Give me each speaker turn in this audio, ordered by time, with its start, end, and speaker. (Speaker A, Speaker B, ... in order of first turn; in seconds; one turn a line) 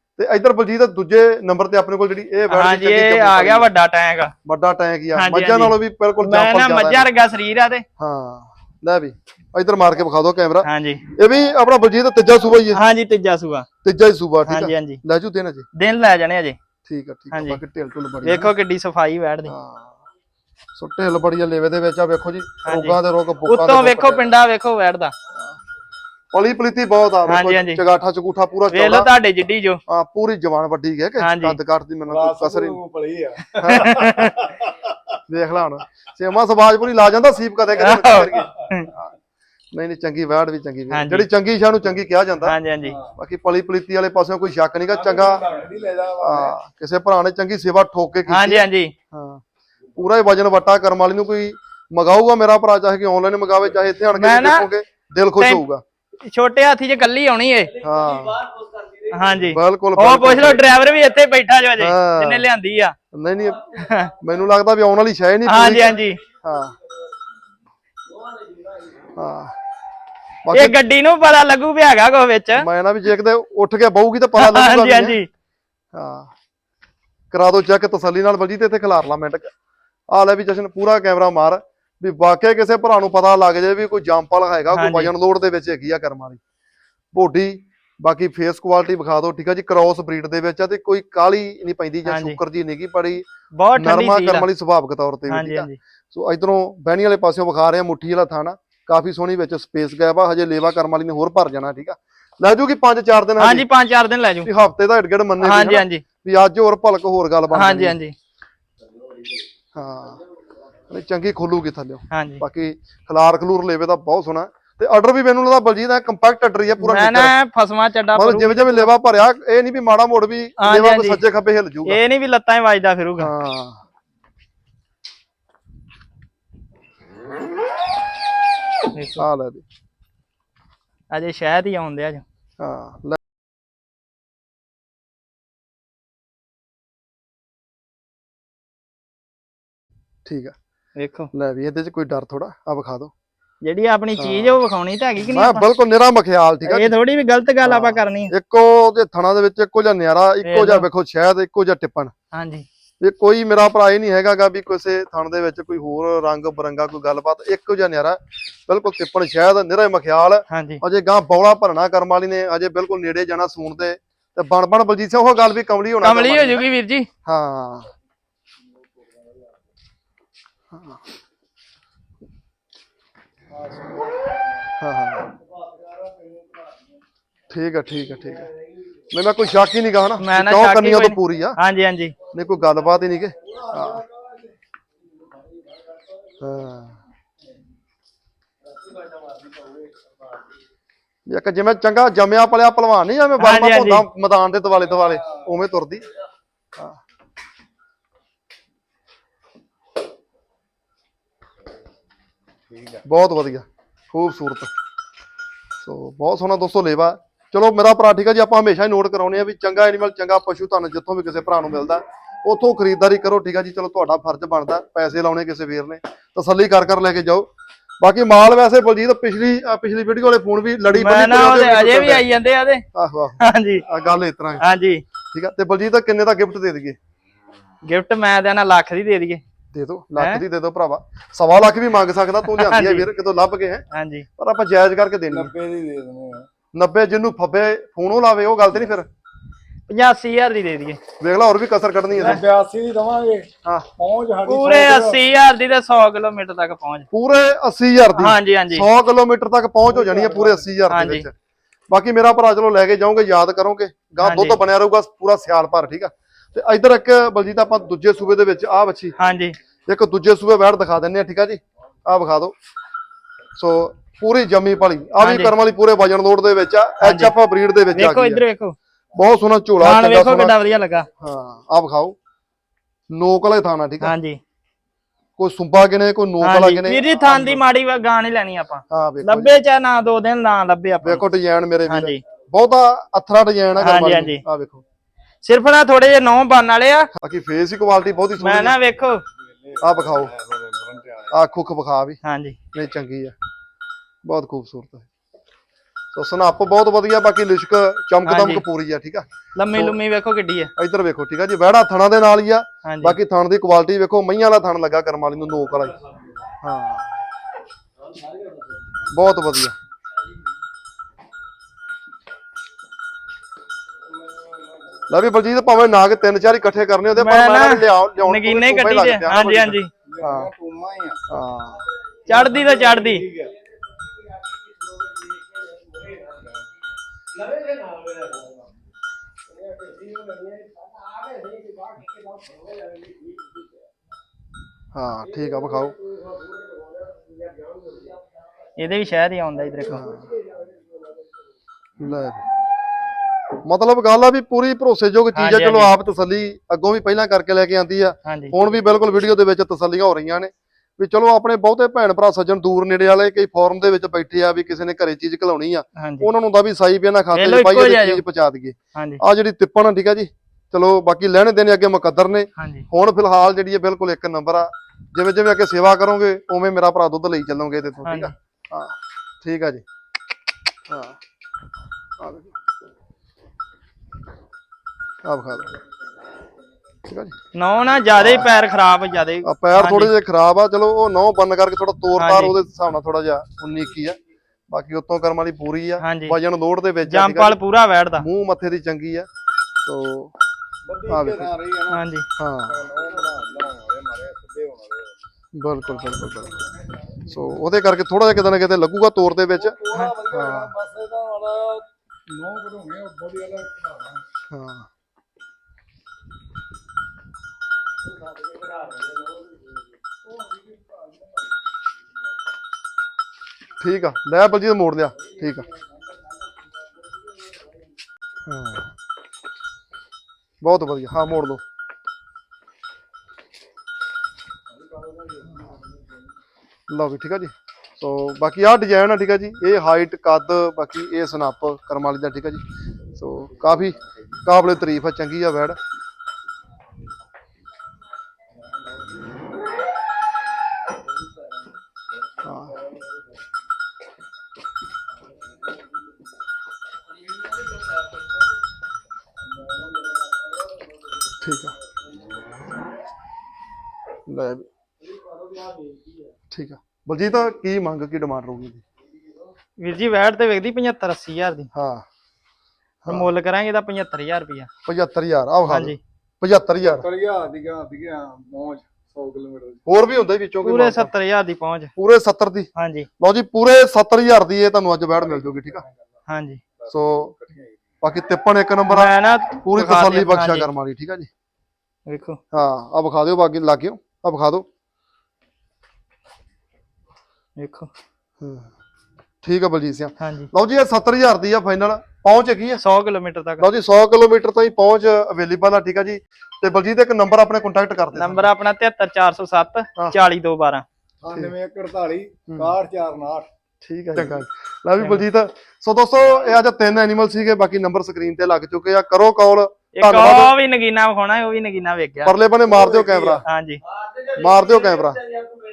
Speaker A: 0.2-3.7
Speaker B: 2.5-4.3
Speaker A: 4.4-7.1
Speaker B: 5.1-7.8
Speaker A: 8.0-12.8
Speaker B: 10.6-11.0
Speaker B: 12.7-13.7
Speaker A: 13.8-15.6
Speaker B: 14.4-15.0
Speaker B: 15.7-16.6
Speaker A: 16.8-18.5
Speaker B: 17.3-17.6
Speaker B: 18.2-19.5
Speaker A: 19.5-19.9
Speaker A: 20.7-24.3
Speaker B: 22.6-25.1
Speaker A: 26.3-29.1
Speaker B: 27.3-27.8
Speaker B: 28.7-29.8
Speaker A: 29.9-32.8
Speaker B: 31.2-31.6
Speaker C: 32.1-34.7
Speaker A: 33.6-34.1
Speaker B: 33.7-34.4
Speaker A: 35.3-39.1
Speaker B: 37.8-38.9
Speaker A: 39.7-42.5
Speaker B: 40.9-41.2
Speaker B: 42.4-43.0
Speaker C: 42.8-43.1
Speaker A: 43.2-45.4
Speaker C: 44.9-46.5
Speaker A: 46.2-49.4
Speaker B: 48.3-48.9
Speaker A: 50.0-55.8
Speaker B: 54.1-54.7
Speaker B: 56.2-57.8
Speaker A: 57.8-58.4
Speaker B: 59.1-63.0
Speaker A: 59.4-60.7
Speaker A: 61.8-62.5
Speaker A: 63.1-66.7
Speaker B: 63.7-64.1
Speaker B: 65.5-66.2
Speaker A: 69.1-69.5
Speaker A: 70.5-70.7
Speaker B: 70.5-72.7
Speaker A: 72.5-75.2
Speaker B: 74.3-75.3
Speaker A: 75.9-76.3
Speaker A: 77.3-79.5
Speaker A: 80.1-86.4
Speaker B: 84.7-85.1
Speaker A: 87.1-103.7
Speaker B: 92.0-92.4
Speaker B: 93.5-94.5
Speaker B: 95.3-95.8
Speaker B: 103.4-104.5
Speaker A: 104.4-108.0
Speaker B: 105.4-106.0
Speaker B: 107.5-108.1
Speaker A: 109.7-110.2
Speaker A: 110.9-117.3
Speaker B: 112.1-112.4
Speaker B: 116.8-118.9
Speaker A: 118.1-122.0
Speaker B: 120.6-121.2
Speaker B: 121.8-123.3
Speaker A: 123.2-123.8
Speaker B: 128.9-129.2
Speaker A: 129.2-129.6
Speaker B: 131.1-132.2
Speaker A: 132.6-133.2
Speaker A: 140.2-140.5
Speaker B: 140.9-141.3
Speaker A: 141.3-143.1
Speaker B: 143.6-145.6
Speaker A: 144.2-144.6
Speaker A: 145.2-146.9
Speaker B: 146.7-148.3
Speaker A: 147.6-152.1
Speaker B: 150.4-150.8
Speaker B: 152.3-152.6
Speaker A: 153.0-166.6
Speaker B: 160.5-160.8
Speaker B: 166.0-167.1
Speaker A: 167.2-167.9
Speaker A: 170.7-171.0
Speaker C: 173.5-174.2
Speaker A: 174.8-175.3
Speaker A: 177.5-178.5
Speaker A: 179.1-181.6
Speaker B: 180.2-182.1
Speaker A: 182.3-184.0
Speaker A: 186.4-186.9
Speaker A: 191.3-196.1
Speaker B: 193.4-194.1
Speaker C: 202.7-203.0
Speaker A: 203.0-204.7
Speaker A: 205.8-217.5
Speaker A: 218.0-222.2
Speaker B: 220.9-222.8
Speaker A: 222.9-224.6
Speaker B: 223.4-223.8
Speaker B: 224.6-225.0
Speaker A: 225.3-226.9
Speaker B: 227.8-229.4
Speaker A: 229.7-233.8
Speaker B: 230.2-230.4
Speaker B: 232.5-233.1
Speaker B: 233.9-234.2
Speaker A: 234.4-235.5
Speaker C: 235.3-236.5
Speaker A: 236.7-239.1
Speaker B: 239.9-241.0
Speaker A: 241.2-242.4
Speaker C: 242.1-245.2
Speaker B: 244.4-247.1
Speaker A: 247.1-251.3
Speaker B: 248.2-248.9
Speaker C: 249.9-250.7
Speaker B: 250.9-251.2
Speaker A: 251.9-259.2
Speaker B: 254.2-254.6
Speaker B: 259.2-259.6
Speaker A: 259.9-262.5
Speaker A: 263.6-268.4
Speaker B: 265.2-265.5
Speaker B: 267.0-267.3
Speaker B: 267.9-268.8
Speaker A: 269.1-270.6
Speaker B: 269.8-271.1
Speaker A: 271.2-272.1
Speaker A: 273.1-274.1
Speaker B: 274.0-274.4
Speaker A: 275.4-277.6
Speaker B: 276.4-281.2
Speaker A: 278.9-279.5
Speaker A: 281.0-284.8
Speaker B: 281.9-282.2
Speaker B: 283.8-284.4
Speaker B: 285.4-287.1
Speaker A: 287.2-288.8
Speaker B: 288.4-289.2
Speaker C: 289.5-291.3
Speaker A: 289.8-290.3
Speaker A: 291.3-292.2
Speaker B: 292.2-292.6
Speaker A: 292.7-293.3
Speaker A: 294.2-295.1
Speaker A: 296.1-300.0
Speaker B: 298.2-298.6
Speaker B: 299.6-300.7
Speaker A: 300.8-305.9
Speaker B: 302.8-303.1
Speaker A: 306.6-307.1
Speaker A: 309.1-309.7
Speaker A: 315.1-320.5
Speaker B: 317.1-319.9
Speaker C: 320.1-321.2
Speaker A: 321.3-321.8
Speaker B: 322.3-323.2
Speaker C: 322.3-323.5
Speaker A: 334.9-335.9
Speaker B: 338.8-340.1
Speaker A: 339.9-340.3
Speaker A: 342.0-342.4
Speaker A: 343.6-369.8
Speaker B: 345.3-345.9
Speaker B: 348.2-348.5
Speaker B: 356.0-356.3
Speaker B: 357.3-358.2
Speaker B: 358.9-359.2
Speaker B: 362.6-362.8
Speaker B: 368.0-368.3
Speaker A: 370.9-371.2
Speaker A: 372.2-372.5
Speaker A: 375.2-375.7
Speaker A: 377.1-377.3
Speaker B: 377.5-380.1
Speaker A: 378.1-378.5
Speaker A: 379.4-384.2
Speaker B: 382.2-382.5
Speaker A: 384.7-387.6
Speaker B: 386.0-386.4
Speaker B: 387.0-388.2
Speaker A: 388.2-389.3
Speaker A: 389.8-390.3
Speaker C: 390.9-392.0
Speaker A: 391.1-391.5
Speaker B: 391.9-392.3
Speaker A: 392.4-392.8
Speaker C: 392.7-395.1
Speaker A: 395.5-396.5
Speaker A: 397.3-399.8
Speaker C: 399.6-404.2
Speaker A: 400.3-400.7
Speaker A: 404.5-404.9
Speaker A: 413.8-415.7
Speaker A: 418.4-418.9
Speaker A: 420.6-421.6
Speaker A: 426.9-432.6
Speaker A: 433.1-435.8
Speaker A: 442.4-442.7
Speaker A: 451.4-451.7
Speaker A: 454.3-454.6
Speaker A: 456.5-458.8
Speaker B: 459.8-461.7
Speaker A: 461.7-462.0
Speaker A: 463.0-463.3
Speaker B: 463.1-464.7
Speaker A: 464.9-467.1
Speaker B: 465.7-466.0
Speaker C: 466.8-469.8
Speaker A: 469.9-471.1
Speaker B: 470.6-471.9
Speaker A: 471.9-475.8
Speaker B: 472.8-473.1
Speaker B: 476.3-476.6
Speaker C: 476.8-477.7
Speaker A: 476.9-477.3
Speaker A: 478.0-481.3
Speaker B: 478.9-480.7
Speaker B: 482.1-482.4
Speaker A: 482.5-484.6
Speaker B: 487.6-487.9
Speaker A: 488.4-488.7
Speaker A: 489.4-492.8
Speaker B: 490.2-490.5
Speaker B: 492.8-493.6
Speaker A: 493.6-498.5
Speaker B: 498.1-500.8
Speaker C: 501.2-503.5
Speaker A: 502.5-502.7
Speaker A: 503.8-510.5
Speaker B: 505.0-505.2
Speaker B: 509.9-512.4
Speaker A: 512.2-513.4
Speaker C: 512.7-513.4
Speaker B: 513.4-513.8
Speaker A: 514.3-515.2